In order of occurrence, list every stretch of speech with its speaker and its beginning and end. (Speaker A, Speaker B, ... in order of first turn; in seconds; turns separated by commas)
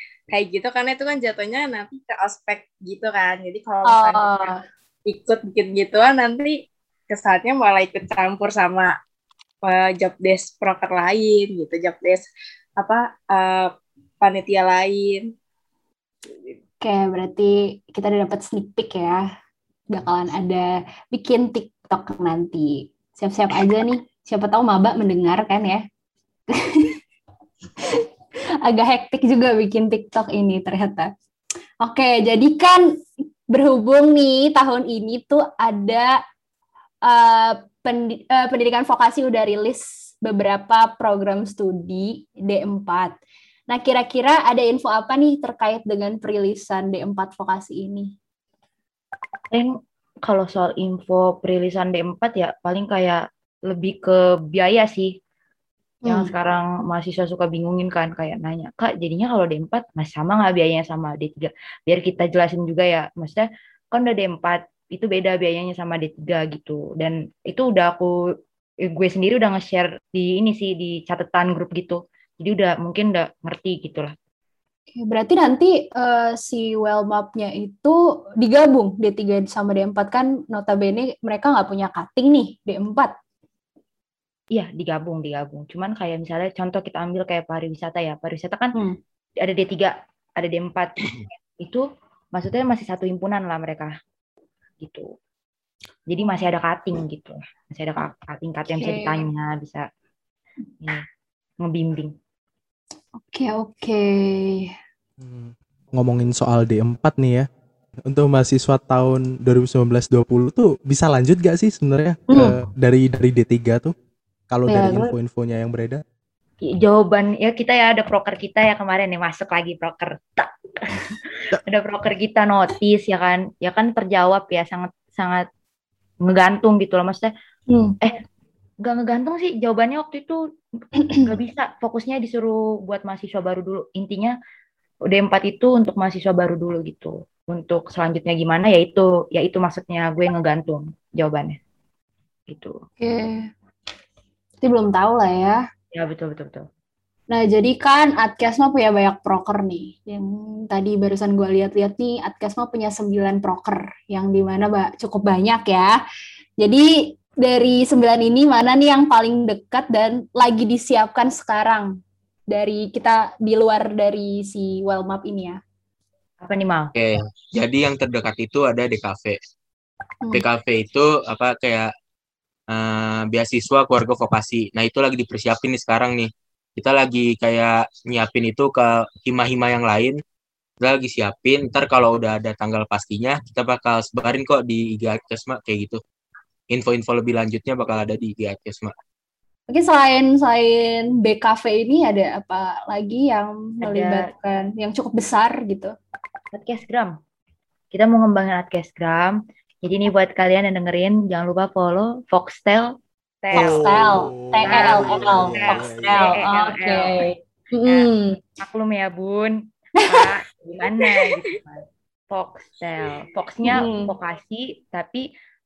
Speaker A: 0.3-4.5, Speaker B: 3.9-4.6, Speaker A: 5.1-8.9, Speaker A: 9.6-15.3, Speaker A: 16.3-16.6, Speaker B: 16.8-19.3, Speaker B: 19.9-25.8, Speaker B: 26.6-26.9, Speaker B: 28.6-31.1, Speaker B: 31.8-33.0, Speaker B: 33.5-36.2, Speaker B: 37.0-43.2, Speaker B: 43.7-48.1, Speaker C: 50.3-55.1, Speaker B: 56.0-56.3, Speaker C: 56.1-68.1, Speaker C: 68.8-74.1, Speaker B: 75.0-83.1, Speaker C: 84.5-88.8, Speaker C: 89.4-93.9, Speaker C: 94.8-95.1, Speaker C: 96.1-99.9, Speaker B: 98.7-99.2, Speaker C: 101.6-102.1, Speaker B: 103.2-104.7, Speaker D: 105.2-107.5, Speaker D: 108.1-113.9, Speaker B: 112.3-112.6, Speaker D: 114.5-116.0, Speaker B: 114.7-115.1, Speaker C: 116.7-125.5, Speaker C: 126.2-127.3, Speaker B: 127.7-128.0, Speaker C: 128.8-130.4, Speaker C: 131.1-134.3, Speaker C: 135.1-141.6, Speaker C: 142.5-142.8, Speaker B: 143.0-143.5, Speaker B: 144.6-145.6, Speaker C: 145.9-146.7, Speaker B: 147.3-155.9, Speaker B: 156.6-162.0, Speaker B: 162.5-165.6, Speaker C: 166.4-166.9, Speaker E: 167.0-169.4, Speaker E: 170.3-171.9, Speaker E: 172.7-180.2, Speaker E: 180.8-186.0, Speaker E: 186.7-188.9, Speaker B: 189.7-195.9, Speaker C: 193.8-194.2, Speaker C: 196.5-197.2, Speaker C: 197.9-207.2, Speaker D: 203.5-206.4, Speaker B: 203.5-208.4, Speaker C: 207.9-215.3, Speaker B: 213.7-214.1